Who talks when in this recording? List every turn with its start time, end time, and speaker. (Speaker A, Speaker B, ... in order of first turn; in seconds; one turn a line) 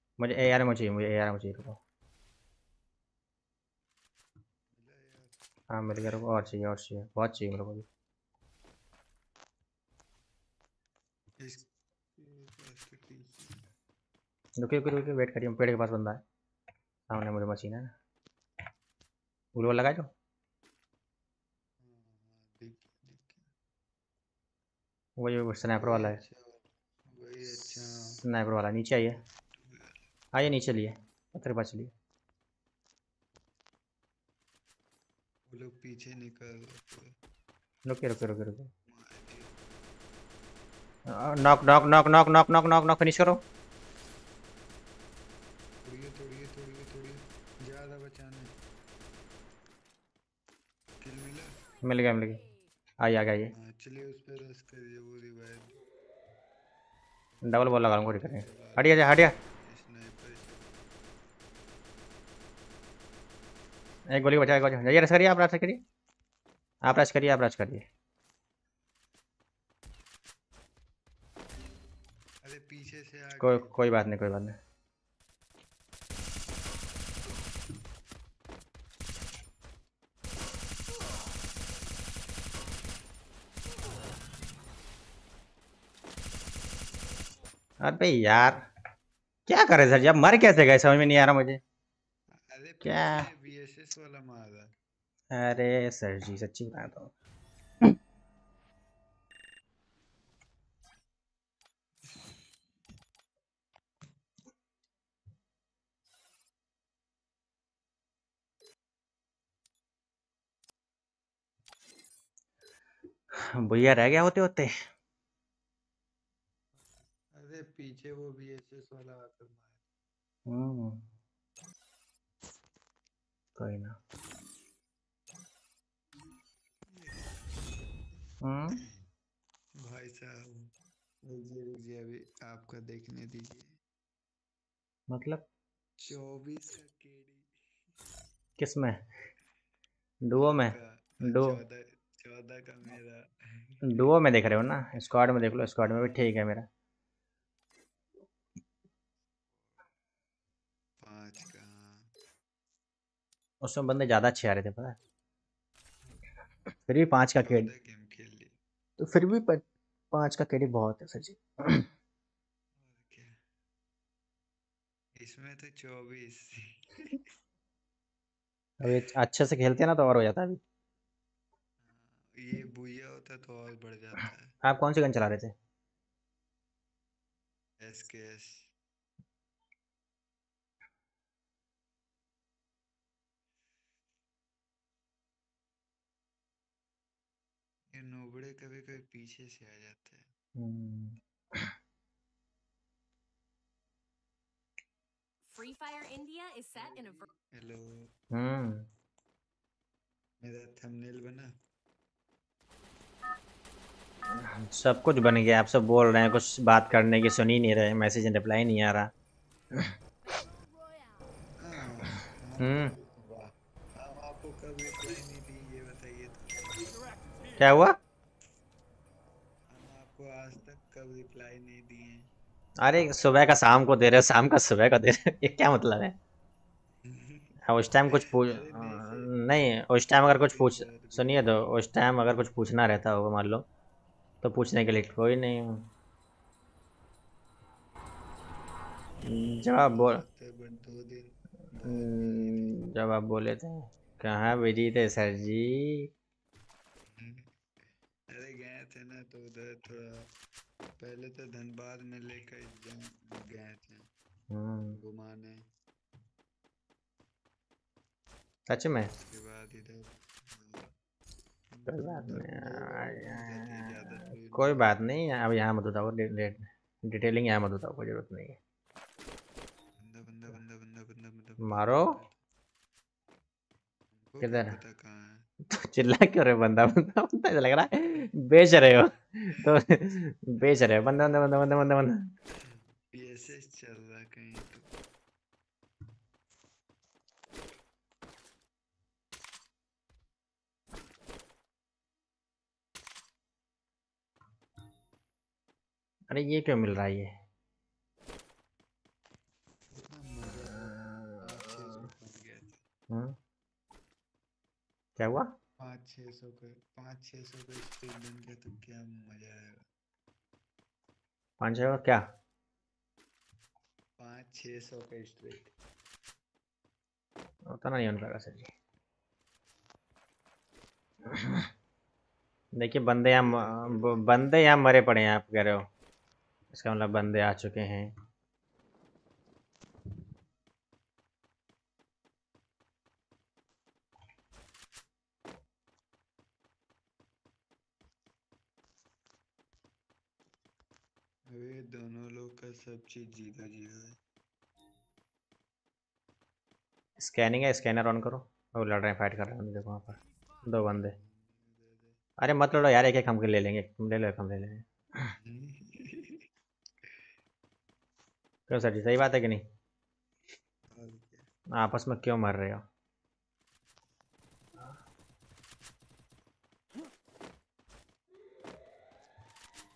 Speaker A: 0.2-1.8
Speaker B: 4.7-5.3
Speaker A: 5.7-7.8
Speaker B: 11.4-13.7
Speaker A: 14.6-16.2
Speaker A: 17.1-17.9
Speaker A: 19.6-20.1
Speaker B: 21.8-23.5
Speaker A: 25.2-26.2
Speaker B: 25.8-28.2
Speaker A: 28.2-29.2
Speaker B: 29.5-30.0
Speaker A: 30.3-31.9
Speaker B: 35.5-37.1
Speaker A: 37.9-38.7
Speaker B: 38.9-39.5
Speaker A: 41.1-43.4
Speaker B: 45.8-48.6
Speaker B: 51.0-51.6
Speaker A: 51.8-52.4
Speaker A: 53.0-53.5
Speaker B: 53.5-55.8
Speaker B: 57.3-60.8
Speaker A: 57.4-59.3
Speaker A: 64.1-65.8
Speaker A: 66.8-67.8
Speaker B: 72.4-73.7
Speaker A: 73.4-74.6
Speaker A: 87.8-88.6
Speaker A: 89.5-91.6
Speaker B: 92.3-94.7
Speaker A: 92.8-93.3
Speaker A: 95.3-97.1
Speaker A: 113.3-114.7
Speaker B: 116.8-119.8
Speaker A: 120.5-121.0
Speaker A: 123.5-124.0
Speaker B: 126.8-127.9
Speaker A: 128.4-128.8
Speaker B: 129.8-133.8
Speaker A: 135.1-135.4
Speaker B: 136.0-137.5
Speaker A: 138.6-139.0
Speaker A: 140.2-141.6
Speaker B: 140.3-143.8
Speaker A: 143.8-146.7
Speaker B: 145.8-146.1
Speaker B: 149.5-149.9
Speaker B: 151.0-152.1
Speaker A: 153.6-155.0
Speaker A: 156.9-157.7
Speaker B: 157.4-158.6
Speaker A: 159.0-161.8
Speaker B: 162.8-163.4
Speaker B: 165.2-167.2
Speaker A: 168.8-170.6
Speaker B: 171.8-174.5
Speaker A: 174.6-175.5
Speaker B: 177.8-178.7
Speaker B: 187.9-190.3
Speaker A: 190.6-191.7
Speaker C: 195.4-197.3
Speaker B: 196.7-198.1
Speaker A: 198.3-198.8
Speaker B: 200.4-201.6
Speaker A: 204.4-209.1
Speaker C: 210.2-211.3
Speaker B: 211.6-217.0
Speaker A: 212.6-212.9
Speaker A: 217.6-218.0
Speaker B: 219.7-222.3
Speaker A: 222.8-226.2
Speaker B: 227.0-229.3
Speaker A: 227.7-233.7
Speaker B: 230.3-231.6
Speaker A: 234.4-235.8
Speaker A: 239.2-240.2
Speaker B: 239.6-242.8
Speaker A: 241.8-246.1
Speaker B: 247.1-247.5
Speaker B: 248.3-250.3
Speaker B: 251.0-254.1
Speaker A: 254.5-255.0
Speaker B: 255.0-255.6
Speaker A: 258.7-259.1
Speaker B: 259.1-260.9
Speaker B: 261.7-264.9
Speaker A: 261.9-268.6
Speaker B: 270.0-272.3
Speaker A: 271.6-272.2
Speaker B: 274.2-275.4
Speaker A: 274.4-274.7
Speaker A: 275.7-282.2
Speaker B: 282.5-284.9
Speaker A: 296.3-297.3
Speaker B: 299.9-302.8
Speaker A: 300.9-301.4
Speaker A: 303.1-303.4
Speaker A: 305.2-305.5
Speaker B: 305.8-309.9
Speaker A: 311.6-312.2
Speaker B: 314.2-315.7
Speaker A: 317.7-318.7
Speaker A: 321.3-321.7
Speaker A: 322.7-325.9
Speaker B: 323.3-324.5
Speaker A: 326.7-328.1
Speaker B: 341.5-344.2
Speaker A: 347.2-351.1
Speaker B: 350.8-352.2
Speaker A: 352.4-354.8
Speaker B: 355.3-356.4
Speaker A: 358.7-359.6
Speaker B: 360.9-361.4
Speaker A: 361.7-362.8